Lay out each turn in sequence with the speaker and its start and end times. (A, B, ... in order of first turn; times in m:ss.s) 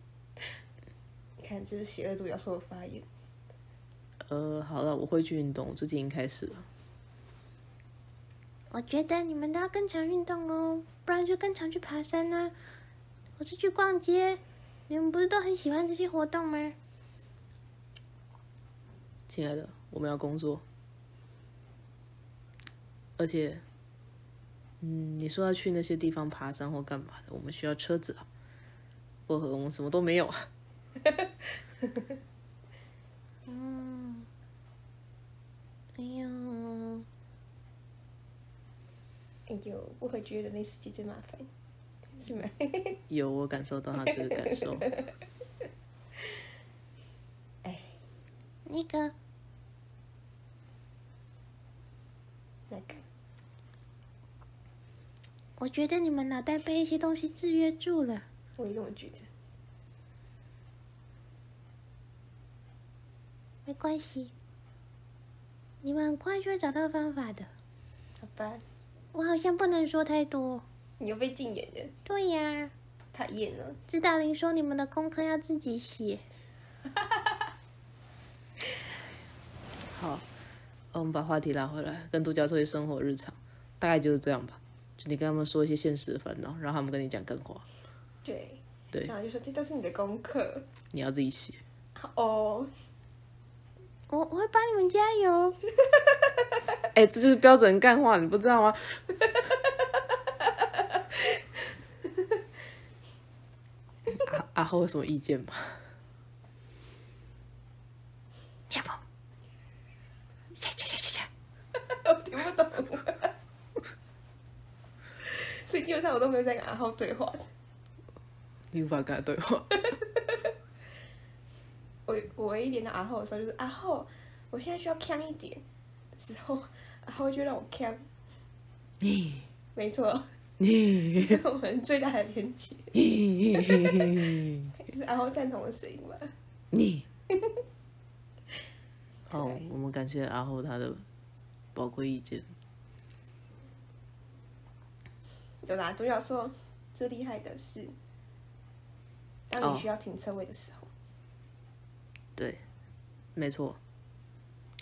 0:01.4-0:03.0 A
0:04.3-0:06.6 B
0:08.7-0:12.5 C
0:13.4-0:16.8 C
0:19.3-0:20.6 B
0:23.2-0:23.6 B
0:24.8-0:28.2 B
0:29.3-0:30.5 B
0:31.0-0:32.1 A
0:33.5-0:34.3 C
0:36.0-0:37.0 C
0:39.5-0:41.5 A
0:42.2-0:43.0 A
0:43.1-0:44.9 B
0:44.0-0:45.1 A
0:47.6-0:47.9 A
0:48.6-0:49.1 C
0:52.7-0:53.0 A
0:55.6-0:58.2 C
0:58.6-0:59.3 A
1:03.6-1:04.3 C
1:05.8-1:07.5 C
1:08.2-1:08.6 A
1:09.1-1:10.6 C
1:11.0-1:11.9 A
1:12.1-1:12.7 C
1:13.1-1:13.8 A
1:13.9-1:16.2 C
1:19.9-1:20.2 B
1:20.9-1:27.6 B
1:28.2-1:30.7 A
1:30.9-1:31.6 B
1:32.0-1:32.7 A
1:34.1-1:35.6 C
1:36.9-1:39.0 B
1:40.4-1:41.4 A
1:44.1-1:45.8 B
1:50.6-1:51.3 B
1:51.8-1:53.3 A
1:55.2-1:57.5 A
1:58.7-2:00.0 B
1:59.9-2:00.5 A
2:02.1-2:08.0 A
2:09.0-2:09.5 B
2:09.7-2:10.3 A
2:10.6-2:11.4 B
2:11.1-2:13.0 A
2:12.9-2:14.8 B
2:13.5-2:16.3 A
2:16.7-2:17.0 B
2:17.3-2:17.6 A
2:19.3-2:21.0 B
2:19.3-2:19.6 A
2:21.7-2:22.4 B
2:25.6-2:27.9 A
2:29.5-2:30.9 A
2:29.6-2:29.9 B
2:32.4-2:32.6 B
2:33.4-2:33.8 B